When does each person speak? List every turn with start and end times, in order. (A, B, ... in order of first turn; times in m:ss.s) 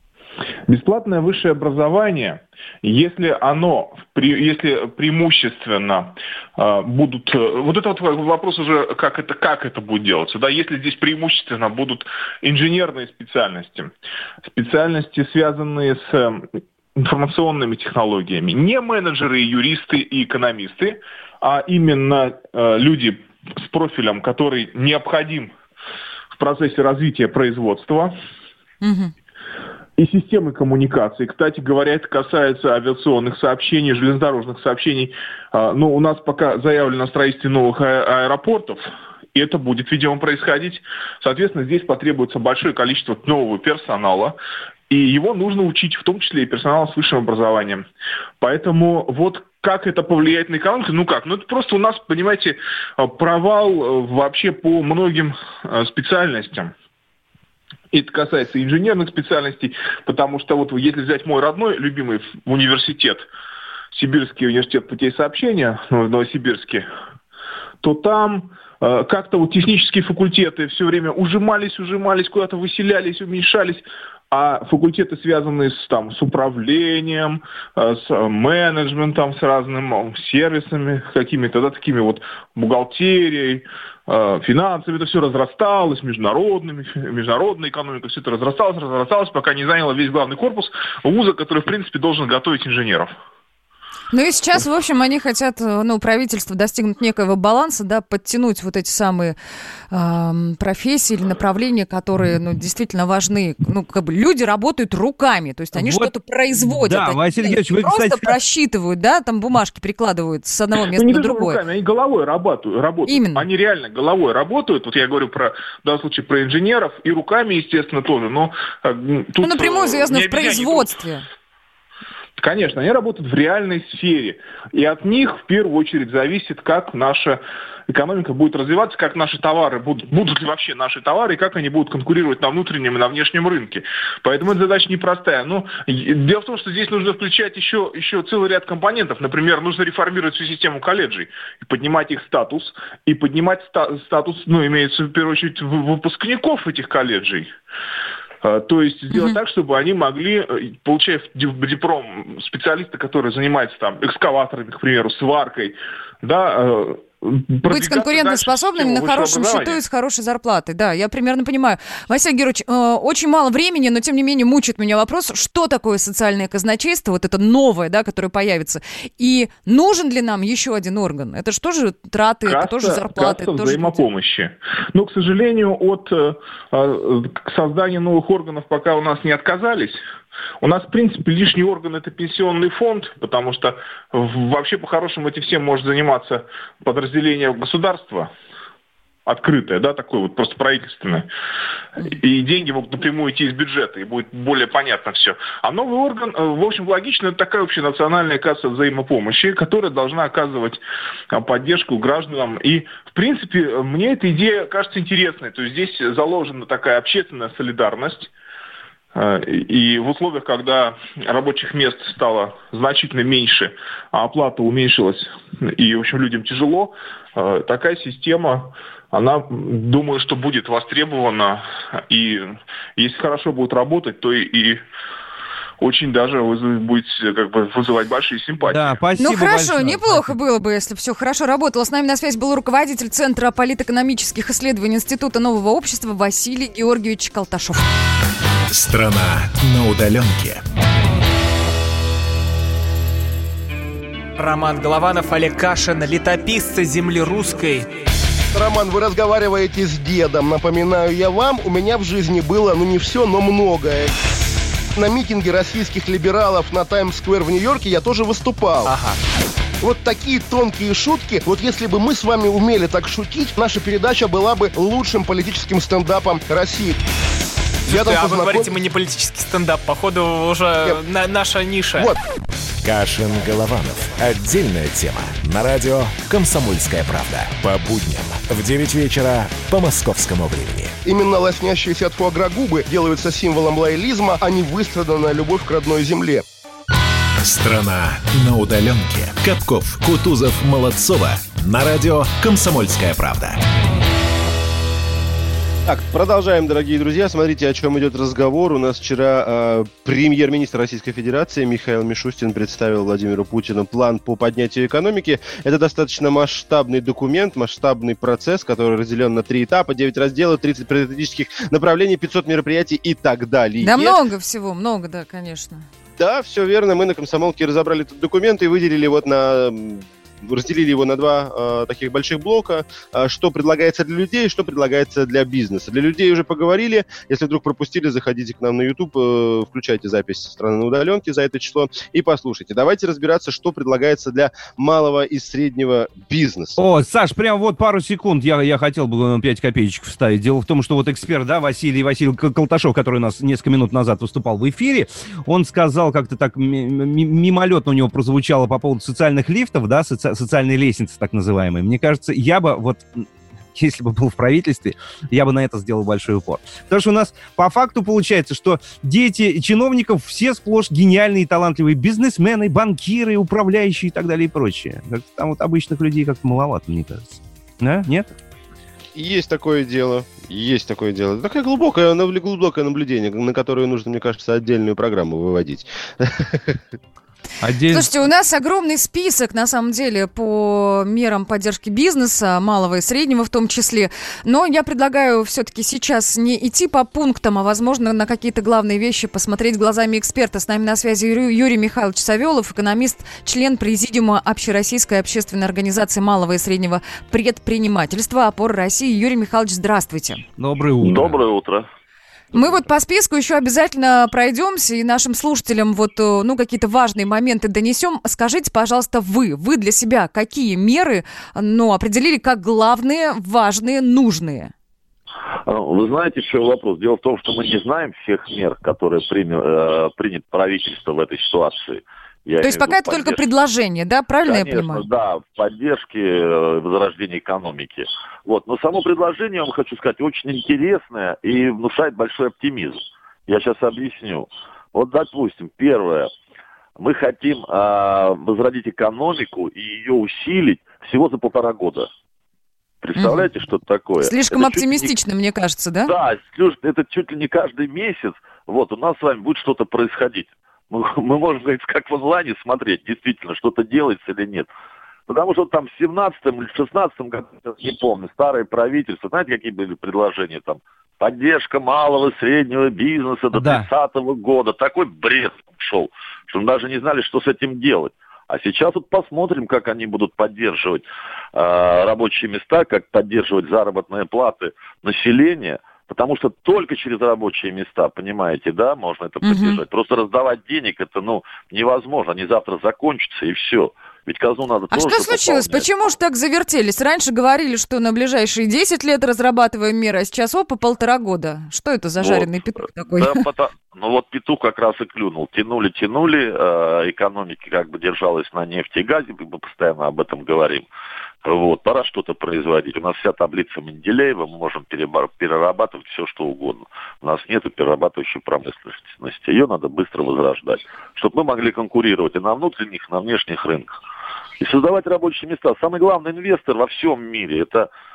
0:00.7-0:13.9 A
0:14.4-0:16.4 A
0:17.0-0:25.5 A
0:26.4-0:28.1 A
0:28.8-0:29.1 B
0:30.0-0:38.8 A
0:39.3-0:44.4 A
0:44.9-0:47.8 A
0:48.4-0:56.7 A
0:57.9-1:03.2 A
1:03.9-1:06.8 A
1:07.8-1:33.1 A
1:34.1-1:39.4 B
1:39.9-1:51.6 B
1:45.7-1:48.3 C
1:50.9-2:01.0 A
1:53.1-1:53.5 B
1:59.4-2:01.2 B
2:02.4-2:27.5 A
2:28.4-2:39.8 A
2:29.1-2:29.4 B
2:37.7-2:54.0 B
2:52.4-3:00.0 A
3:00.6-3:08.3 A
3:09.2-3:11.3 A
3:12.0-3:20.8 A
3:21.3-3:28.3 A
3:29.1-3:44.8 A
3:45.8-3:48.8 A
3:48.6-3:50.3 C
3:49.2-3:57.8 B
3:58.7-4:00.6 D
4:04.4-4:07.9 E
4:08.5-4:14.1 F
4:14.9-4:18.9 F
4:18.8-4:19.2 E
4:19.8-4:27.0 F
4:27.9-4:32.1 E
4:27.9-4:28.7 F
4:32.8-4:40.9 D
4:41.0-4:46.4 F
4:47.4-4:53.6 D
4:55.8-5:14.2 G
5:13.8-5:15.8 B
5:16.2-5:36.8 G
5:36.8-6:08.2 C
6:09.1-6:16.8 G
6:17.6-6:18.1 C
6:17.9-6:40.4 B
6:40.6-6:41.4 C
6:41.0-6:41.9 H
6:42.5-6:54.7 B
6:55.6-7:03.4 H
7:02.6-7:05.1 B
7:04.4-7:16.3 H
7:17.0-7:22.1 H
7:23.0-7:25.1 H
7:23.2-7:23.5 B
7:24.2-7:26.1 B
7:26.0-7:34.7 H
7:35.3-7:51.0 H
7:43.5-7:43.9 C
7:51.5-8:05.9 H
7:59.4-7:59.8 B
8:04.9-8:13.4 B
8:12.2-8:20.9 H
8:21.4-8:33.9 H
8:34.6-8:37.9 H